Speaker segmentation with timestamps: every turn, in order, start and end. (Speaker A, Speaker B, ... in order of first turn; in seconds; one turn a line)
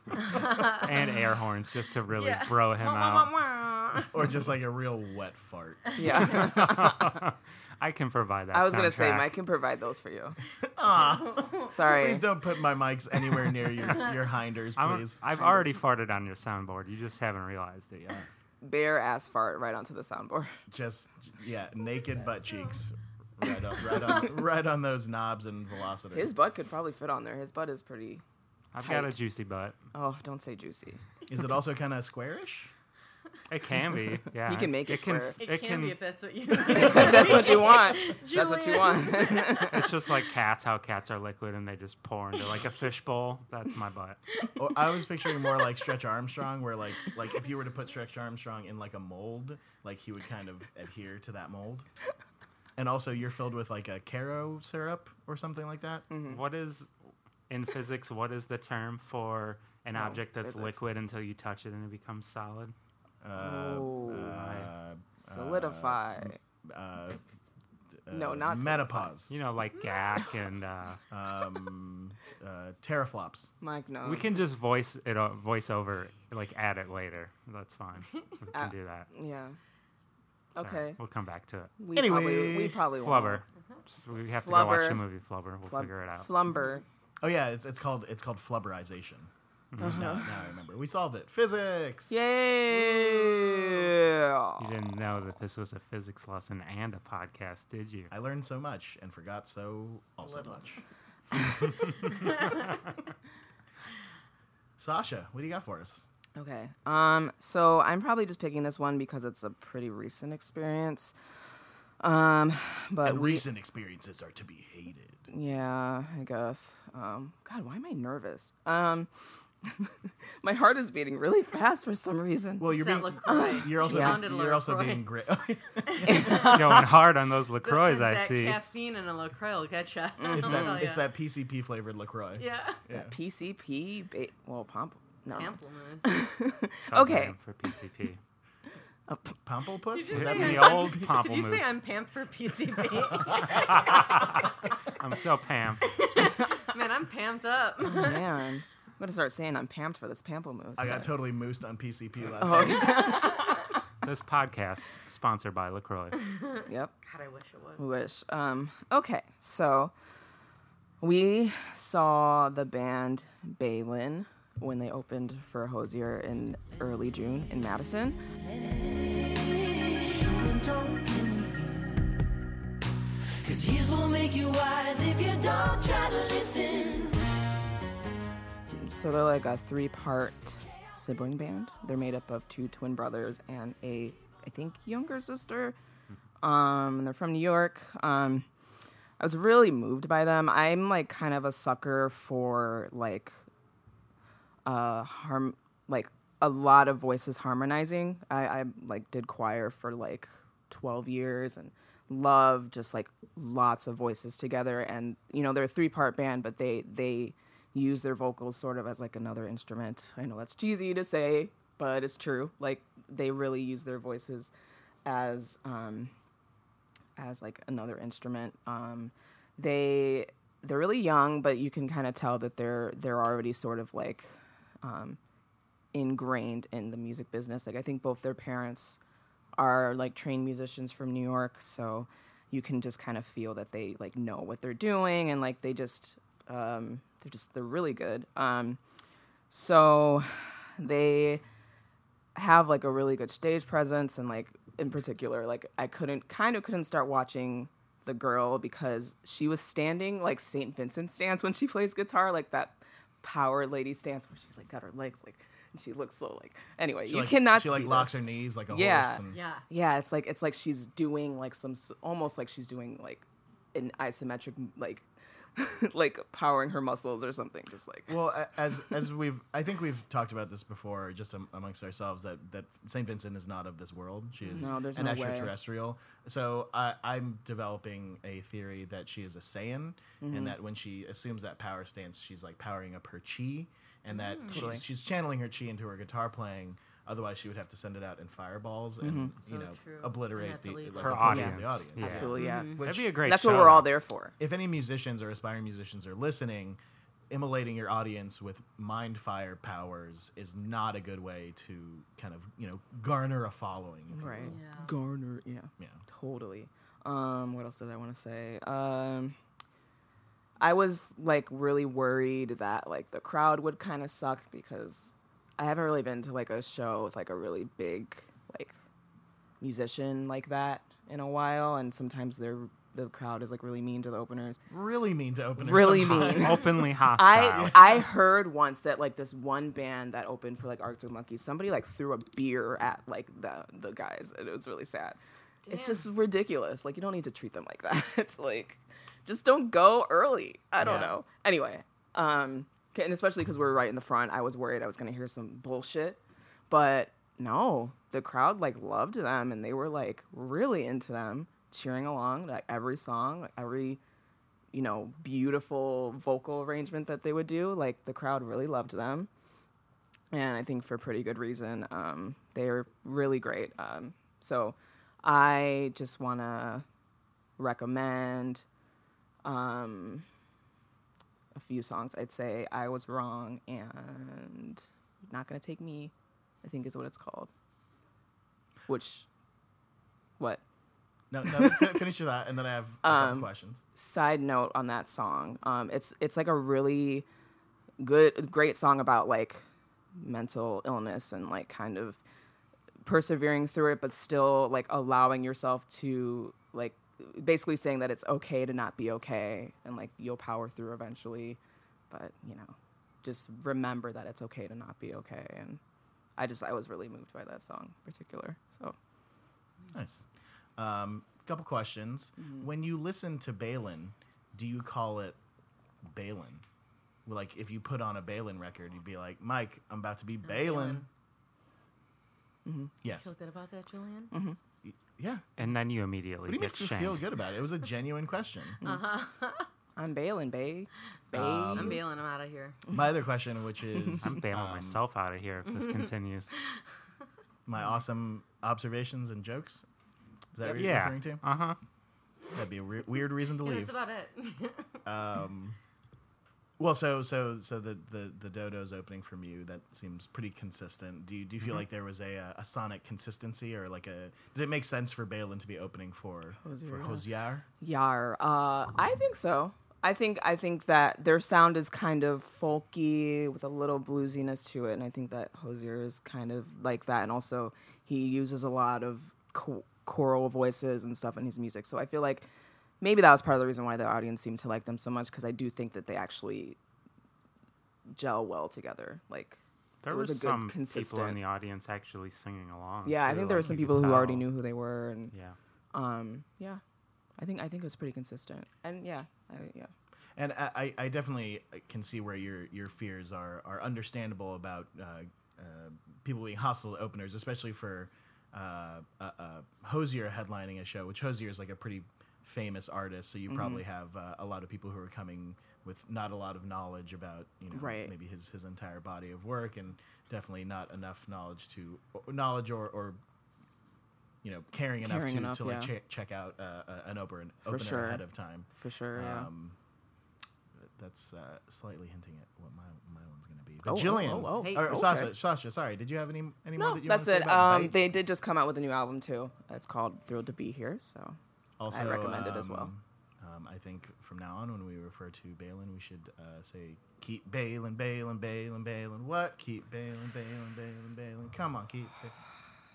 Speaker A: 0.1-0.9
Speaker B: 0.4-3.3
Speaker A: 2.1-4.2
Speaker C: 4.1-5.9
Speaker D: 6.0-7.2
Speaker B: 6.2-9.4
Speaker D: 8.5-10.4
Speaker C: 10.6-15.2
Speaker D: 11.7-12.3
Speaker B: 14.8-18.3
Speaker D: 18.6-20.6
Speaker C: 20.7-26.4
Speaker D: 26.1-28.2
Speaker B: 28.7-29.8
Speaker D: 28.8-29.2
Speaker D: 29.9-31.0
Speaker C: 31.3-32.7
Speaker B: 33.5-36.0
Speaker D: 34.4-35.4
Speaker A: 35.4-39.9
Speaker D: 36.7-40.0
Speaker C: 36.7-37.5
Speaker B: 37.0-37.4
Speaker B: 39.6-44.3
Speaker C: 44.5-51.9
Speaker C: 52.8-56.1
Speaker D: 56.1-56.4
Speaker B: 56.2-56.9
Speaker B: 57.5-62.8
Speaker D: 60.0-60.8
Speaker C: 63.2-67.2
Speaker D: 63.4-64.4
Speaker B: 64.3-64.7
Speaker D: 65.2-66.4
Speaker C: 68.1-69.4
Speaker D: 68.1-69.1
Speaker B: 69.3-71.0
Speaker A: 69.8-70.0
Speaker C: 71.1-73.5
Speaker D: 73.6-74.4
Speaker B: 74.0-79.1
Speaker D: 78.5-79.6
Speaker D: 80.5-81.0
Speaker B: 80.6-81.8
Speaker D: 81.8-83.4
Speaker C: 81.9-82.8
Speaker B: 83.0-86.3
Speaker D: 84.4-85.0
Speaker D: 85.7-86.8
Speaker C: 87.2-89.3
Speaker B: 89.7-90.2
Speaker D: 89.8-90.3
Speaker C: 89.8-92.2
Speaker D: 92.1-94.7
Speaker A: 92.7-93.8
Speaker B: 94.6-98.1
Speaker C: 98.1-100.8
Speaker A: 100.3-100.6
Speaker A: 102.1-102.5
Speaker C: 104.8-106.1
Speaker D: 106.3-111.1
Speaker D: 112.0-113.4
Speaker C: 113.0-115.3
Speaker D: 115.3-119.1
Speaker D: 119.6-124.3
Speaker C: 122.6-126.5
Speaker A: 122.7-125.1
Speaker A: 125.9-126.9
Speaker D: 126.0-126.9
Speaker B: 126.2-128.6
Speaker A: 127.6-131.1
Speaker D: 130.2-130.9
Speaker C: 130.3-133.2
Speaker A: 132.4-132.8
Speaker D: 132.9-137.3
Speaker A: 135.3-136.2
Speaker B: 136.9-138.2
Speaker D: 139.1-139.4
Speaker C: 139.4-141.0
Speaker A: 139.9-144.1
Speaker B: 140.1-141.8
Speaker B: 143.4-145.9
Speaker A: 145.8-148.3
Speaker D: 147.8-151.2
Speaker C: 150.8-153.3
Speaker D: 152.4-153.7
Speaker B: 154.0-156.3
Speaker A: 156.2-157.8
Speaker D: 156.7-156.9
Speaker D: 157.8-159.9
Speaker D: 161.0-168.2
Speaker E: 168.6-172.1
Speaker E: 173.4-177.2
Speaker D: 178.7-185.8
Speaker D: 186.4-188.5
Speaker D: 189.2-193.3
Speaker D: 194.7-214.5
Speaker D: 215.1-216.1
Speaker D: 217.2-224.3
Speaker D: 224.8-225.2
Speaker D: 225.9-229.0
Speaker D: 229.6-238.8
Speaker D: 239.5-241.4
Speaker D: 242.3-268.2
Speaker C: 257.1-259.4
Speaker A: 259.3-259.6
Speaker C: 268.1-292.4
Speaker D: 274.6-275.6
Speaker D: 280.2-280.6
Speaker A: 284.1-284.7
Speaker D: 284.5-284.8
Speaker D: 289.0-289.3
Speaker A: 289.5-291.5
Speaker B: 291.0-293.9
Speaker D: 291.2-294.3
Speaker A: 292.3-292.9
Speaker C: 294.4-296.8
Speaker C: 297.3-304.6
Speaker D: 304.1-309.4
Speaker A: 304.4-304.9
Speaker D: 310.6-318.7
Speaker D: 319.6-324.6
Speaker C: 324.7-326.7
Speaker D: 325.6-335.2
Speaker B: 325.9-328.0
Speaker A: 335.7-336.1
Speaker D: 335.7-354.0
Speaker C: 340.8-341.1
Speaker A: 340.8-341.1
Speaker D: 354.7-359.3
Speaker D: 360.3-366.9
Speaker D: 367.6-368.6
Speaker D: 369.4-370.2
Speaker D: 371.5-376.1
Speaker D: 376.6-377.5
Speaker D: 378.9-379.3
Speaker C: 381.3-383.8
Speaker D: 381.5-381.9
Speaker D: 383.0-387.3
Speaker D: 388.0-389.6
Speaker D: 390.1-392.2
Speaker D: 393.0-401.6
Speaker D: 402.1-405.8
Speaker D: 406.4-409.0
Speaker C: 409.9-410.3
Speaker C: 410.8-415.4
Speaker D: 412.4-412.6
Speaker C: 416.0-416.6
Speaker C: 417.3-421.1
Speaker A: 420.4-421.1
Speaker D: 422.7-422.9
Speaker C: 423.0-423.3
Speaker A: 423.1-424.3
Speaker D: 424.3-424.6
Speaker C: 424.8-425.4
Speaker B: 425.6-427.3
Speaker C: 426.5-428.8
Speaker D: 428.8-429.1
Speaker A: 428.8-429.7
Speaker D: 430.0-432.0
Speaker C: 431.3-432.0
Speaker A: 431.7-432.8
Speaker C: 432.9-435.0
Speaker B: 434.2-436.5
Speaker A: 435.7-436.1
Speaker C: 437.7-439.9
Speaker C: 440.6-441.4
Speaker B: 440.7-441.8
Speaker C: 442.5-443.9
Speaker A: 443.6-445.0
Speaker C: 445.1-445.8
Speaker C: 446.8-457.6
Speaker D: 456.6-457.2
Speaker D: 457.8-472.5
Speaker D: 473.0-476.8
Speaker D: 478.1-481.4
Speaker B: 480.0-484.5
Speaker D: 483.1-485.3
Speaker B: 485.3-485.6
Speaker D: 485.9-486.8
Speaker D: 487.4-489.9
Speaker C: 490.4-513.2
Speaker D: 503.5-503.8
Speaker D: 507.7-508.1
Speaker C: 514.4-519.8
Speaker D: 515.0-515.9
Speaker D: 517.7-518.2
Speaker D: 518.8-519.5
Speaker C: 520.8-528.0
Speaker D: 523.8-525.3
Speaker A: 524.5-525.0
Speaker D: 526.8-531.4
Speaker C: 531.8-542.3
Speaker D: 531.9-532.9